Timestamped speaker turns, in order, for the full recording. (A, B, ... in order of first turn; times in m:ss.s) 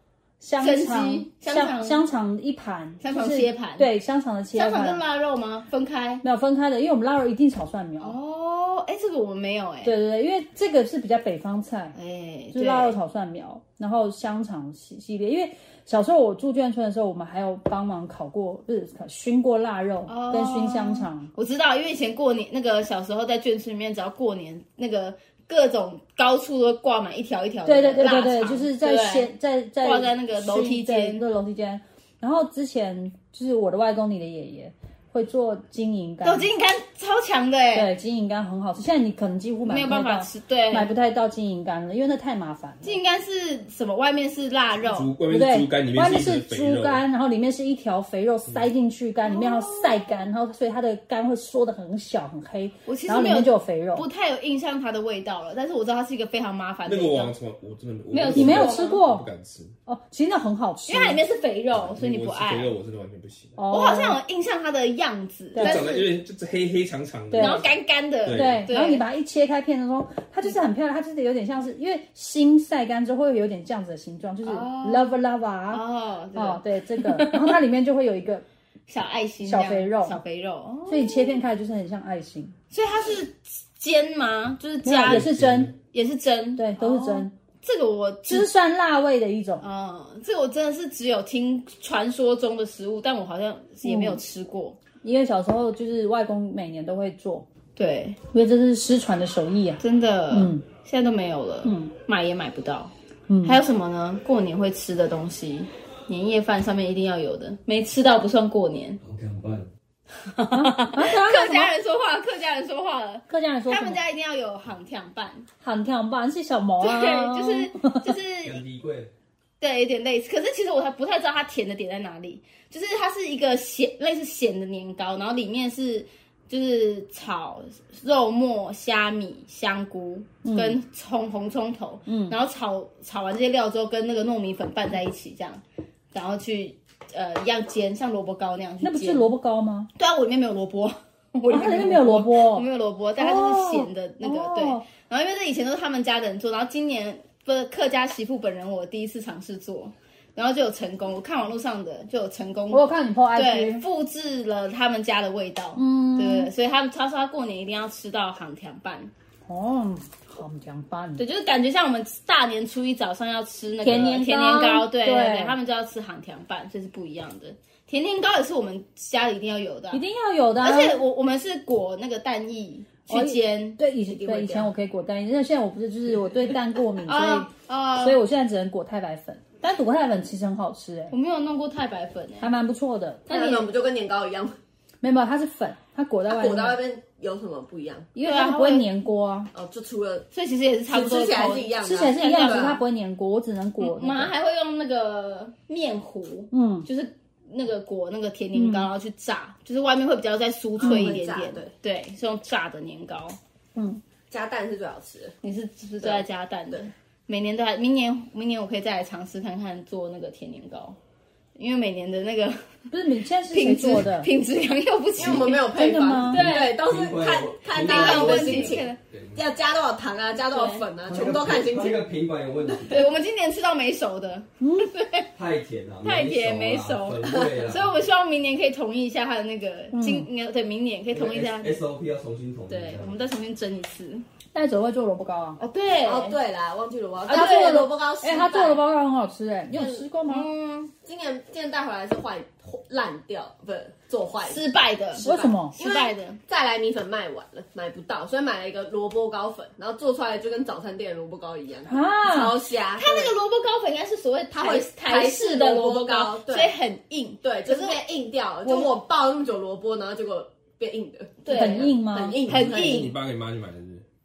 0:00.4-0:05.0 A
0:00.6-0:02.0 B
0:03.0-0:03.9 B
0:04.5-0:06.2 B
0:06.2-0:08.2 A
0:08.0-0:09.9 B
0:09.8-0:11.9 A
0:11.9-0:13.0 B
0:12.5-0:21.3 A
0:20.1-0:29.3 B
0:27.6-0:36.5 A
0:29.8-0:31.2 B
0:36.2-0:37.9 B
0:37.7-0:43.0 A
0:39.7-0:40.9 B
0:42.8-0:45.1 B
0:44.9-0:47.0 C
0:45.3-0:54.0 A
0:49.2-0:50.2 B
0:52.8-0:57.3 B
0:56.8-0:59.7 C
0:58.1-0:59.0 B
0:58.3-0:59.3 A
0:59.9-1:01.2 A
1:00.9-1:02.7 B
1:01.7-1:03.6 C
1:03.6-1:04.2 A
1:03.7-1:06.1 B
1:05.6-1:05.9 A
1:05.6-1:07.7 C
1:07.3-1:07.6 A
1:07.3-1:09.0 B
1:08.2-1:08.7 C
1:08.3-1:15.8 A
1:14.4-1:15.2 B
1:15.7-1:17.6 B
1:16.3-1:18.4 A
1:18.9-1:21.4 B
1:19.4-1:20.2 A
1:20.9-1:22.5 A
1:22.7-1:25.3 B
1:24.8-1:25.7 A
1:25.0-1:25.7 C
1:25.9-1:28.5 B
1:26.6-1:27.3 A
1:28.3-1:29.6 A
1:29.6-1:34.8 B
1:33.8-1:34.2 A
1:35.0-1:37.4 A
1:37.8-1:38.2 B
1:38.3-1:40.6 A
1:39.8-1:42.9 B
1:41.6-1:41.9 A
1:43.3-1:43.6 A
1:43.4-1:49.0 B
1:49.0-1:49.7 D
1:50.2-1:55.4 B
1:50.5-1:51.7 A
1:53.3-1:54.0 A
1:55.6-1:58.1 A
1:56.8-1:58.6 B
1:58.4-1:59.1 D
1:59.6-2:15.6 B
2:10.4-2:10.8 A
2:12.1-2:12.4 A
2:16.1-2:19.2 B
2:18.8-2:19.9 A
2:20.0-2:39.1 B
2:21.5-2:22.7 A
2:23.2-2:24.8 A
2:32.7-2:33.8 A
2:35.8-2:36.5 A
2:39.5-2:41.2 A
2:41.2-2:50.0 B
2:43.8-2:45.6 A
2:49.9-2:51.0 A
2:50.6-2:54.7 B
2:53.1-3:01.1 A
2:57.0-2:58.2 B
3:01.1-3:02.5 B
3:02.4-3:03.2 A
3:03.3-3:03.7 B
3:03.3-3:04.6 E
3:05.0-3:06.8 A
3:06.3-3:08.1 E
3:08.2-3:08.9 B
3:08.2-3:09.5 A
3:09.5-3:10.3 E
3:10.3-3:12.8 B
3:10.9-3:12.8 E
3:11.8-3:14.3 A
3:13.8-3:23.4 B
3:16.5-3:16.9 A
3:18.5-3:18.9 A
3:20.8-3:21.7 E
3:20.8-3:21.2 A
3:23.8-3:24.0 A
3:24.3-3:25.3 E
3:25.4-3:31.0 B
3:26.0-3:26.9 E
3:31.6-3:32.6 B
3:32.9-3:34.3 A
3:33.5-3:35.7 B
3:35.2-3:42.1 E
3:35.7-3:36.5 A
3:36.3-3:36.8 B
3:36.7-3:38.8 D
3:37.7-3:39.0 B
3:39.1-3:39.4 C
3:40.5-3:40.8 B
3:41.0-3:43.1 D
3:42.7-3:43.0 E
3:42.9-3:45.3 B
3:44.6-3:44.9 A
3:45.3-3:48.0 D
3:46.0-3:51.8 B
3:47.3-3:47.5 E
3:49.9-3:50.3 A
3:51.1-3:53.2 D
3:52.7-3:54.2 B
3:54.5-3:55.6 A
3:55.6-3:56.4 B
3:56.0-3:58.8 E
3:57.3-4:00.5 A
3:57.3-3:57.9 B
3:59.7-4:00.1 E
4:00.3-4:00.9 B
4:01.0-4:04.6 E
4:04.4-4:06.4 B
4:05.2-4:13.3 E
4:05.2-4:05.7 A
4:11.9-4:12.6 A
4:12.9-4:18.0 B
4:14.5-4:16.7 E
4:17.4-4:23.1 E
4:18.6-4:18.9 B
4:21.4-4:23.1 B
4:21.5-4:22.4 A
4:22.5-4:24.0 C